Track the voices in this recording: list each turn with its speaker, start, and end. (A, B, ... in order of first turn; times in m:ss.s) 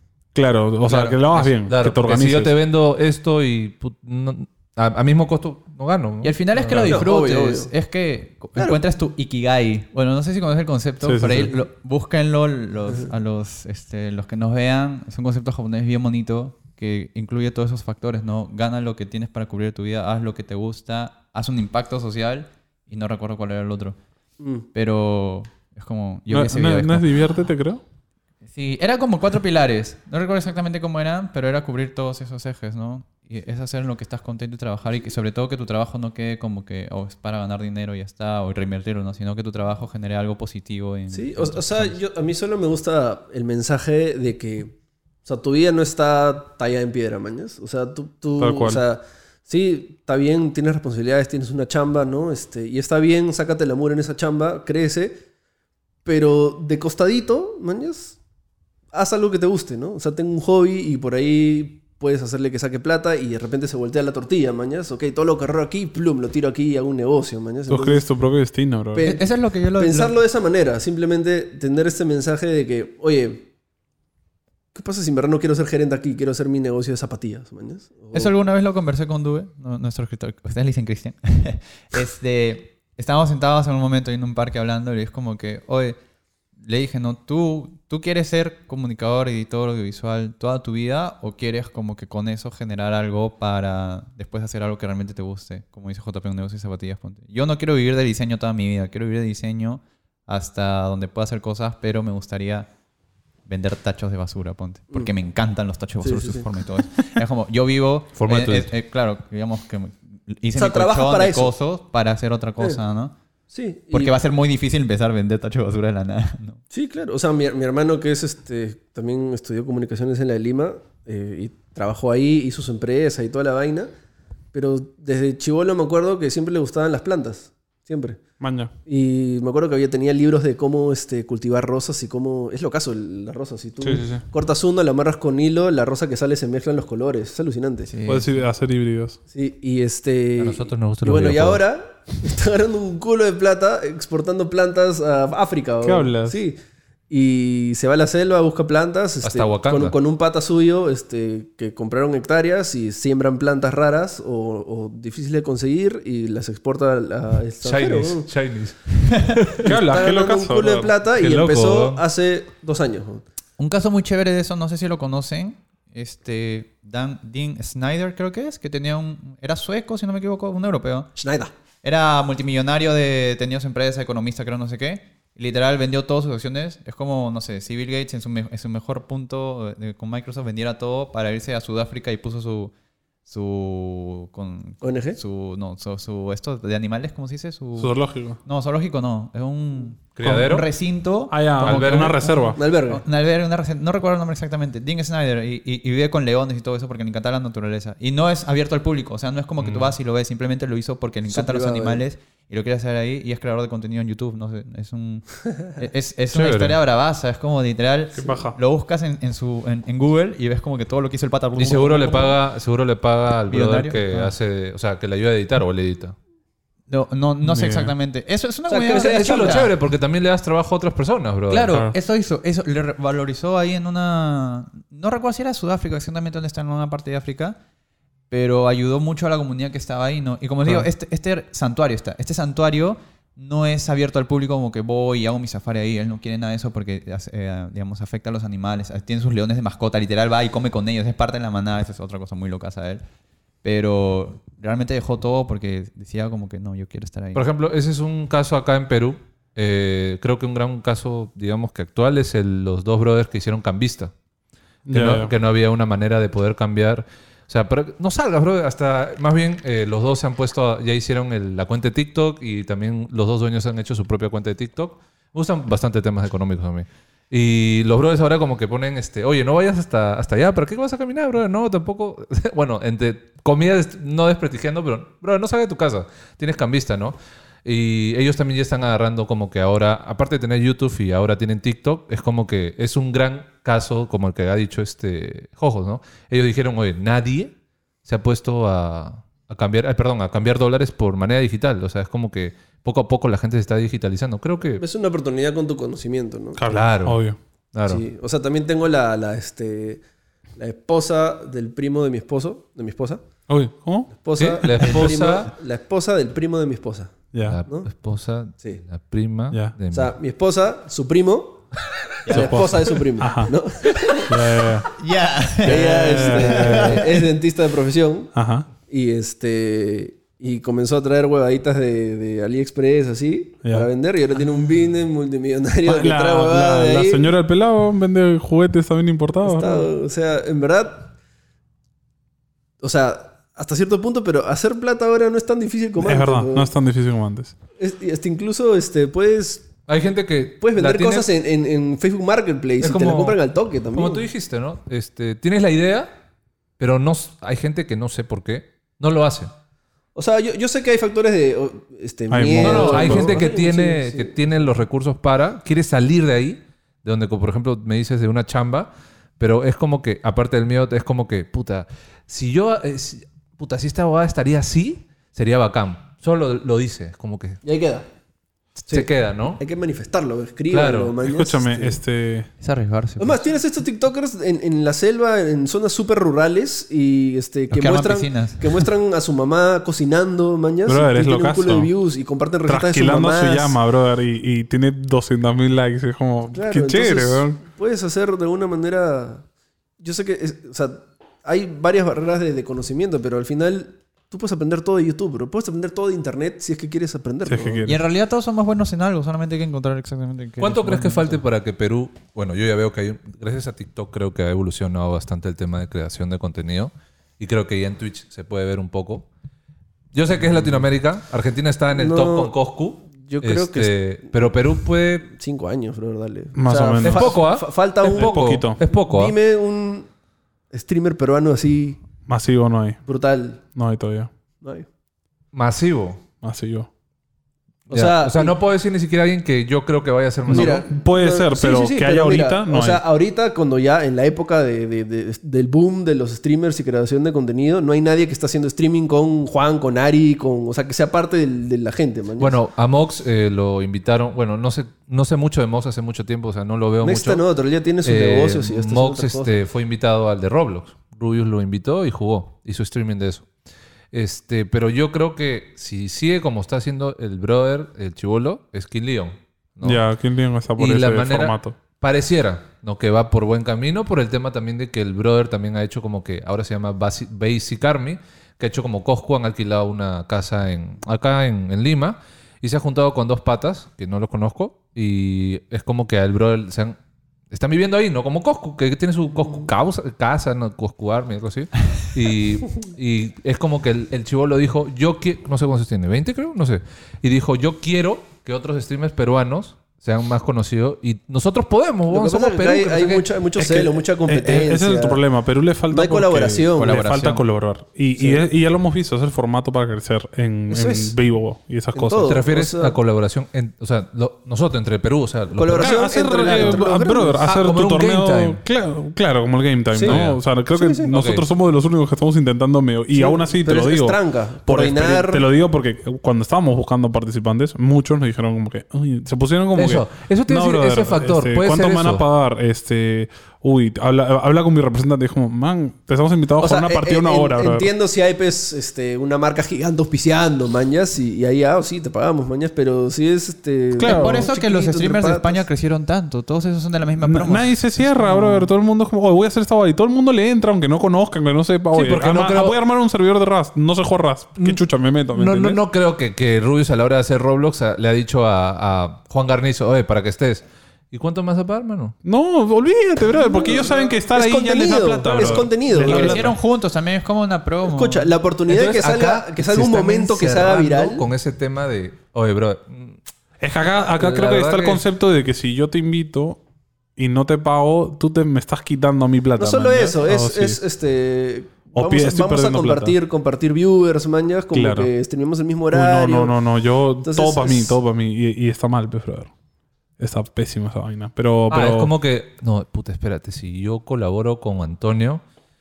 0:00.4-0:02.5 A
0:00.9-0:01.2 B
0:01.3-0:07.0 C
0:06.2-0:24.0 B
0:06.8-0:07.7 D
0:11.0-0:11.5 A
0:24.4-0:24.6 D
0:24.7-0:27.3 B
0:26.3-0:27.8 A
0:28.5-0:42.0 B
0:41.1-0:44.8 D
0:45.3-0:55.2 D
0:48.4-0:48.8 A
0:56.0-0:58.2 D
0:58.9-1:08.0 D
1:07.7-1:09.1 A
1:08.9-1:09.3 D
1:09.0-1:10.1 B
1:09.8-1:13.5 D
1:14.7-1:18.3 D
1:18.1-1:26.0 B
1:26.6-1:42.7 B
1:43.5-1:53.1 B
1:46.0-1:46.4 D
1:48.2-1:48.7 C
1:50.6-1:51.5 D
1:53.5-1:54.2 D
1:53.9-1:56.6 B
1:56.7-2:03.9 D
2:04.5-2:08.2 D
2:08.4-2:08.7 A
2:08.9-2:17.9 D
2:13.8-2:14.2 A
2:17.9-2:18.4 B
2:18.1-2:19.2 A
2:19.3-2:26.6 D
2:20.4-2:21.6 C
2:25.8-2:26.4 A
2:27.1-2:38.3 D
2:29.2-2:30.0 C
2:37.6-2:39.7 C
2:39.6-2:43.2 D
2:39.6-2:40.9 A
2:41.2-2:42.0 C
2:43.6-2:51.1 B
2:51.2-2:51.5 D
2:51.8-3:02.7 B
3:03.3-3:32.4 B
3:04.8-3:05.2 D
3:07.8-3:08.4 A
3:10.2-3:10.7 C
3:11.3-3:12.6 A
3:11.6-3:12.2 C
3:12.6-3:13.0 D
3:19.6-3:19.9 C
3:21.3-3:22.0 D
3:26.3-3:26.8 C
3:28.2-3:28.6 A
3:31.6-3:36.2 C
3:33.5-3:34.3 B
3:36.9-3:39.7 B
3:37.4-3:37.9 A
3:38.7-3:39.7 D
3:38.9-3:41.8 C
3:41.5-3:47.6 B
3:48.3-4:03.0 B
4:03.6-4:07.4 B
4:07.4-4:14.1 C
4:14.9-4:15.3 A
4:14.9-4:47.5 C
4:48.0-4:54.8 C
4:54.8-4:56.6 D
4:56.6-4:57.4 A
4:56.7-4:57.2 C
4:57.7-4:58.0 C
4:57.9-5:00.0 D
5:00.6-5:03.2 D
5:03.5-5:04.1 A
5:04.1-5:07.1 D
5:04.4-5:05.5 C
5:07.3-5:07.6 A
5:07.5-5:10.1 C
5:09.9-5:11.6 D
5:12.2-5:13.0 B
5:12.3-5:14.6 D
5:12.3-5:13.5 A
5:14.3-5:14.9 A
5:15.0-5:17.3 B
5:15.6-5:17.1 A
5:15.6-5:18.3 D
5:18.3-5:18.7 A
5:18.9-5:27.3 D
5:25.9-5:29.9 A
5:29.4-5:31.1 D
5:32.8-5:36.7 D
5:36.0-5:37.5 A
5:37.8-5:39.7 D
5:39.9-5:41.3 C
5:40.6-5:44.2 D
5:42.8-5:43.4 C
5:43.9-5:46.1 C
5:46.8-5:49.5 C
5:50.2-5:54.4 D
5:52.3-5:53.4 A
5:52.6-6:07.6 C
6:07.6-6:08.0 D
6:08.9-6:09.6 C
6:08.9-6:12.0 D
6:10.7-6:11.2 C
6:11.2-6:12.5 A
6:12.6-6:13.4 B
6:13.2-6:23.8 D
6:17.7-6:18.9 B
6:20.9-6:21.9 A
6:22.7-6:27.6 A
6:26.5-6:29.4 D
6:30.0-6:37.8 D
6:37.5-6:38.0 A
6:37.8-6:41.4 B
6:40.6-6:49.3 C
6:50.1-6:55.3 C
6:51.9-6:52.6 D
6:53.1-6:54.0 D
6:55.3-7:00.1 D
6:56.6-6:57.4 A
6:57.0-6:59.4 C
6:58.1-6:58.8 A
7:00.7-7:02.0 D
7:02.3-7:03.0 A
7:03.0-7:03.6 D
7:03.8-7:04.3 A
7:04.6-7:04.9 D
7:05.5-7:06.2 C
7:06.4-7:06.9 A
7:07.9-7:10.8 C
7:07.9-7:08.6 D
7:10.5-7:13.0 A
7:10.5-7:22.6 D
7:22.4-7:27.4 C
7:27.0-7:29.5 D
7:28.0-7:33.5 C
7:34.1-7:40.0 C
7:39.8-7:41.8 A
7:40.8-7:57.0 C
7:57.5-8:13.3 C
8:12.1-8:15.2 D
8:13.6-8:22.4 A
8:15.9-8:17.0 D
8:16.8-8:17.4 B
8:18.2-8:18.4 D
8:20.7-8:21.2 D
8:21.9-8:23.0 D
8:22.2-8:26.8 C
8:25.5-8:27.5 D
8:25.8-8:47.9 A
8:27.4-8:28.6 C
8:29.9-8:31.2 D
8:30.0-8:30.4 C
8:31.1-8:31.4 C
8:33.1-8:35.4 D
8:39.8-8:42.2 C
8:46.6-8:55.7 D
8:54.0-8:54.5 A
8:54.0-8:58.7 B
8:57.2-9:05.8 A
9:01.9-9:02.8 C
9:05.3-9:12.2 C
9:12.2-9:16.6 A
9:13.4-9:16.5 D
9:16.0-9:18.3 B
9:17.8-9:21.3 D
9:18.7-9:23.2 C
9:23.6-9:26.6 A
9:24.2-9:25.0 C
9:27.2-9:30.8 A
9:29.6-9:36.5 D
9:31.9-9:33.2 A
9:34.7-9:35.1 A
9:35.9-9:39.5 A
9:37.2-9:38.0 D
9:40.2-9:42.1 A
9:41.7-9:45.4 C